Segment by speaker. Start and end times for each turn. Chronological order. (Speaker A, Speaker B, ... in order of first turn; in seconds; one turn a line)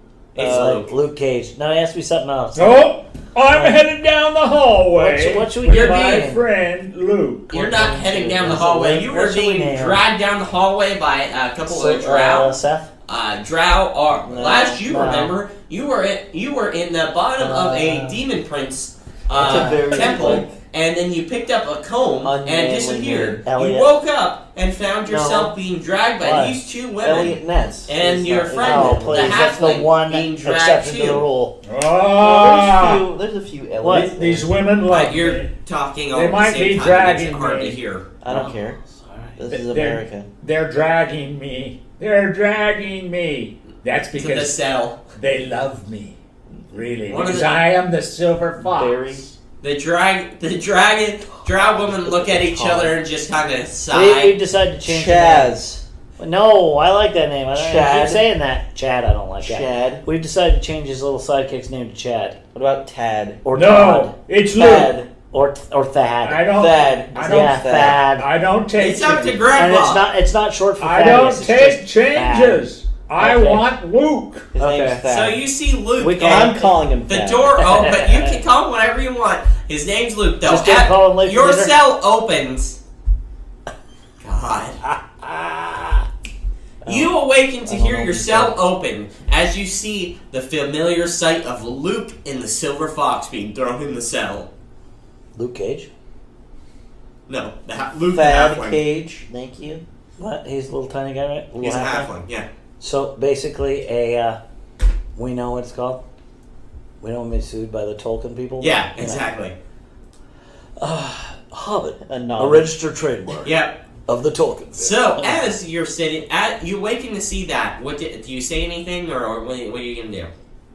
Speaker A: 0.3-0.9
Speaker B: 0.3-2.9
Speaker C: 0.4-0.7
Speaker D: 2.5-7.7
Speaker B: 3.5-3.8
Speaker B: 4.9-6.4
Speaker A: 5.7-6.2
Speaker A: 7.5-12.5
Speaker C: 7.5-8.8
Speaker B: 8.4-10.0
Speaker B: 11.7-12.9
Speaker A: 13.1-31.2
Speaker C: 14.3-14.8
Speaker B: 14.4-15.3
Speaker B: 17.4-18.2
Speaker C: 19.3-20.6
Speaker B: 19.4-20.4
Speaker C: 22.2-23.7
Speaker B: 23.5-23.9
Speaker B: 25.1-25.5
Speaker B: 26.2-26.6
Speaker C: 27.0-29.5
Speaker B: 28.6-31.6
Speaker D: 31.7-33.0
Speaker C: 32.1-34.5
Speaker B: 33.8-34.1
Speaker D: 33.9-35.5
Speaker A: 34.9-38.0
Speaker D: 36.1-37.8
Speaker C: 38.2-38.8
Speaker B: 38.3-39.4
Speaker C: 39.4-40.3
Speaker D: 39.5-44.5
Speaker A: 44.1-45.0
Speaker D: 45.1-46.2
Speaker D: 46.7-49.2
Speaker A: 47.1-47.6
Speaker C: 48.6-49.3
Speaker A: 49.6-54.4
Speaker C: 52.1-53.0
Speaker B: 53.9-55.5
Speaker C: 54.8-55.8
Speaker B: 56.2-62.4
Speaker C: 57.5-58.2
Speaker C: 59.4-60.0
Speaker C: 62.5-63.4
Speaker B: 63.4-64.1
Speaker D: 63.5-64.9
Speaker C: 64.5-65.1
Speaker B: 65.3-66.5
Speaker D: 66.2-69.4
Speaker C: 66.5-68.0
Speaker B: 67.2-68.3
Speaker A: 68.8-70.0
Speaker B: 69.5-72.6
Speaker D: 70.8-74.5
Speaker B: 73.2-73.7
Speaker C: 74.5-75.4
Speaker B: 74.6-75.0
Speaker A: 75.0-82.8
Speaker B: 76.0-76.7
Speaker C: 76.2-77.5
Speaker B: 77.6-78.3
Speaker B: 80.4-81.7
Speaker A: 84.2-84.8
Speaker B: 84.8-86.1
Speaker C: 86.8-87.1
Speaker A: 86.8-94.5
Speaker C: 87.7-88.5
Speaker B: 95.3-95.9
Speaker A: 97.3-98.8
Speaker C: 98.1-99.8
Speaker B: 100.2-102.1
Speaker A: 101.6-102.5
Speaker B: 102.8-104.4
Speaker B: 105.2-106.0
Speaker B: 107.0-109.2
Speaker A: 108.6-109.5
Speaker B: 110.8-113.5
Speaker C: 112.0-112.7
Speaker A: 113.4-113.8
Speaker B: 114.1-115.5
Speaker A: 114.8-120.3